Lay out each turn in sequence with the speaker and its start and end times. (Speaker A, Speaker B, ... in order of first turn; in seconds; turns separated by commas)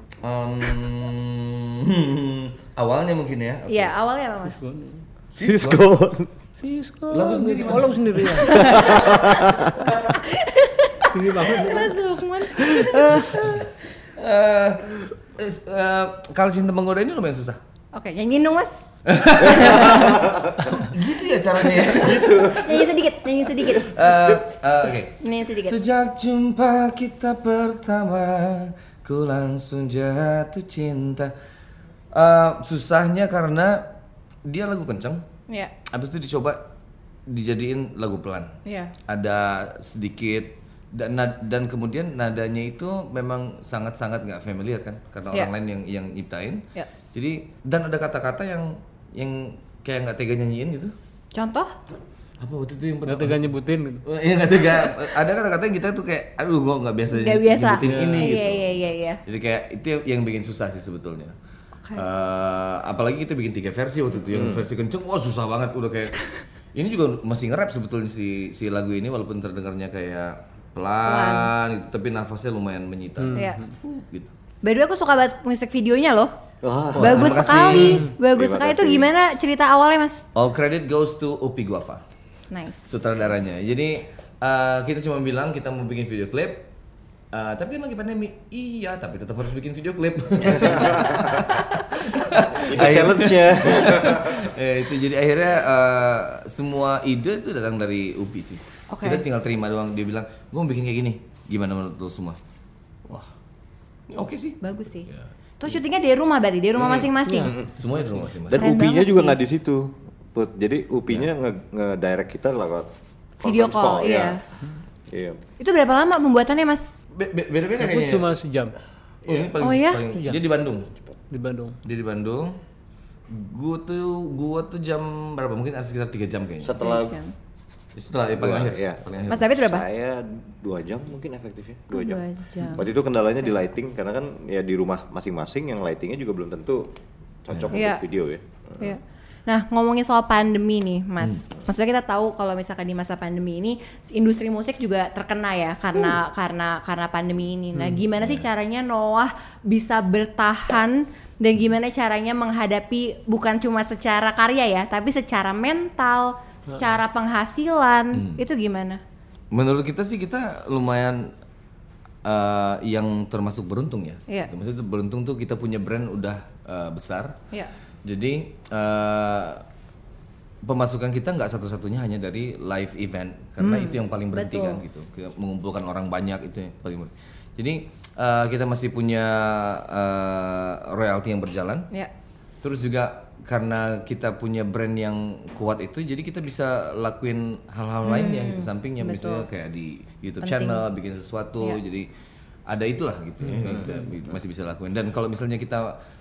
Speaker A: 0.2-3.9, Speaker B: 3.7-4.6, Speaker C: 4.4-5.0, Speaker A: 5.3-5.9, Speaker D: 5.3-6.3, Speaker C: 6.6-8.7, Speaker A: 7.1-8.3, Speaker B: 8.4-13.6, Speaker D: 8.4-9.9, Speaker C: 11.1-12.0, Speaker D: 12.7-13.4, Speaker A: 13.0-17.6, Speaker B: 17.9-18.8, Speaker A: 19.1-22.6, Speaker B: 19.4-20.3, Speaker D: 19.5-20.8, Speaker D: 21.8-22.9, Speaker B: 22.3-23.9, Speaker A: 23.7-31.3, Speaker D: 24.0-24.4, Speaker B: 25.2-25.8, Speaker A: 32.1-33.9, Speaker A: 34.5-35.2, Speaker A: 35.9-36.6, Speaker A: 37.3-38.5, Speaker B: 38.6-38.9, Speaker A: 39.1-50.9, Speaker B: 51.3-51.7, Speaker A: 52.4-53.5, Speaker C: 53.0-54.0, Speaker A: 54.0-61.3, Speaker B: 57.1-59.2, Speaker C: 57.8-58.4, Speaker A: 61.9-74.3, Speaker D: 64.3-64.6, Speaker B: 71.0-71.5, Speaker C: 73.2-73.7, Speaker B: 74.6-76.3, Speaker D: 76.6-79.1, Speaker A: 76.9-78.1, Speaker B: 77.0-80.2, Speaker A: 80.3-82.0, Speaker B: 82.5-83.2, Speaker A: 82.9-86.7, Speaker A: 87.3-102.4, Speaker D: 90.8-91.0, Speaker D: 92.7-94.5, Speaker B: 98.9-99.2, Speaker A: 104.1-105.3, Speaker B: 104.6-105.1, Speaker B: 105.6-107.6, Speaker A: 106.8-107.1, Speaker C: 107.2-108.2, Speaker A: 107.7-108.7, Speaker D: 108.5-114.4, Speaker B: 108.5-109.4, Speaker B: 113.4-114.4, Speaker D: 115.1-115.4, Speaker B: 115.6-116.9, Speaker A: 117.1-118.3, Speaker C: 117.8-118.8, Speaker D: 119.2-119.5, Speaker A: 119.2-120.9, Speaker B: 119.6-120.0, Speaker C: 120.1-120.4, Speaker C: 121.3-121.8, Speaker A: 121.8-122.6, Speaker A: 123.3-126.8, Speaker D: 126.6-127.2, Speaker B: 126.8-127.3, Speaker A: 128.0-129.5, Speaker D: 128.4-136.9, Speaker B: 129.3-129.8, Speaker B: 131.9-132.8, Speaker D: 137.4-139.0, Speaker A: 137.5-137.8, Speaker B: 137.7-138.0, Speaker B: 138.8-159.0, Speaker A: 158.1-158.4, Speaker A: 159.5-161.3, Speaker A: 162.2-167.4, Speaker A: 168.0-169.6, Speaker A: 170.6-181.9, Speaker B: 173.6-174.8, Speaker A: 182.6-192.1, Speaker B: 188.0-189.4, Speaker B: 190.4-190.8, Speaker A: 192.7-196.0, Speaker C: 193.4-194.0